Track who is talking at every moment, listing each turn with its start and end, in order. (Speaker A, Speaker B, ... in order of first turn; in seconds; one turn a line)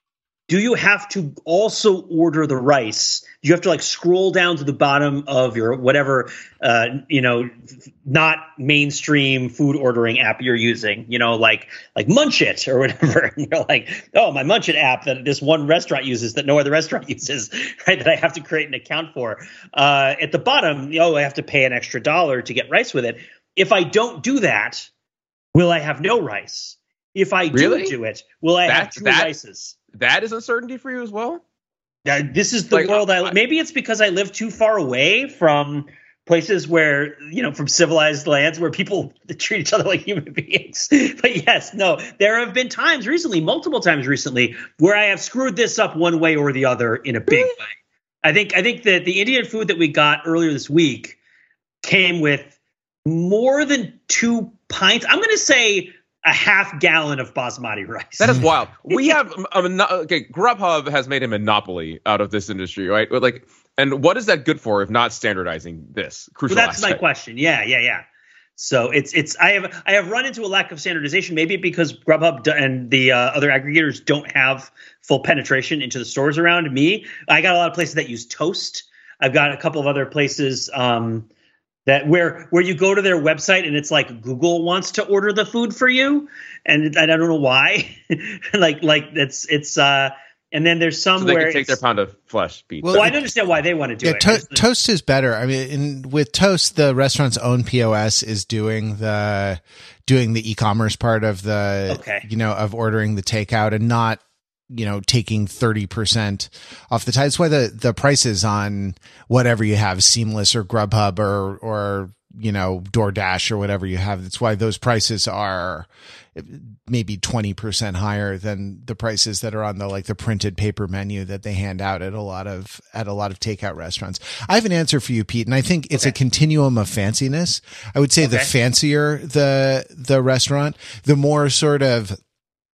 Speaker A: 0.5-7.5
Speaker A: 8.0-24.9
Speaker A: 25.5-29.8
Speaker B: 27.5-27.9
Speaker B: 28.7-29.3
Speaker B: 29.9-31.4
Speaker A: 32.0-47.6
Speaker B: 32.7-33.3
Speaker A: 48.2-51.2
Speaker A: 51.8-52.5
Speaker A: 53.0-59.2
Speaker B: 58.2-67.0
Speaker A: 66.5-68.0
Speaker A: 68.6-81.3
Speaker A: 81.8-91.8
Speaker B: 91.2-93.2
Speaker C: 92.8-93.3
Speaker A: 92.9-94.6
Speaker C: 94.0-132.2
Speaker A: 101.9-102.2
Speaker A: 128.2-128.5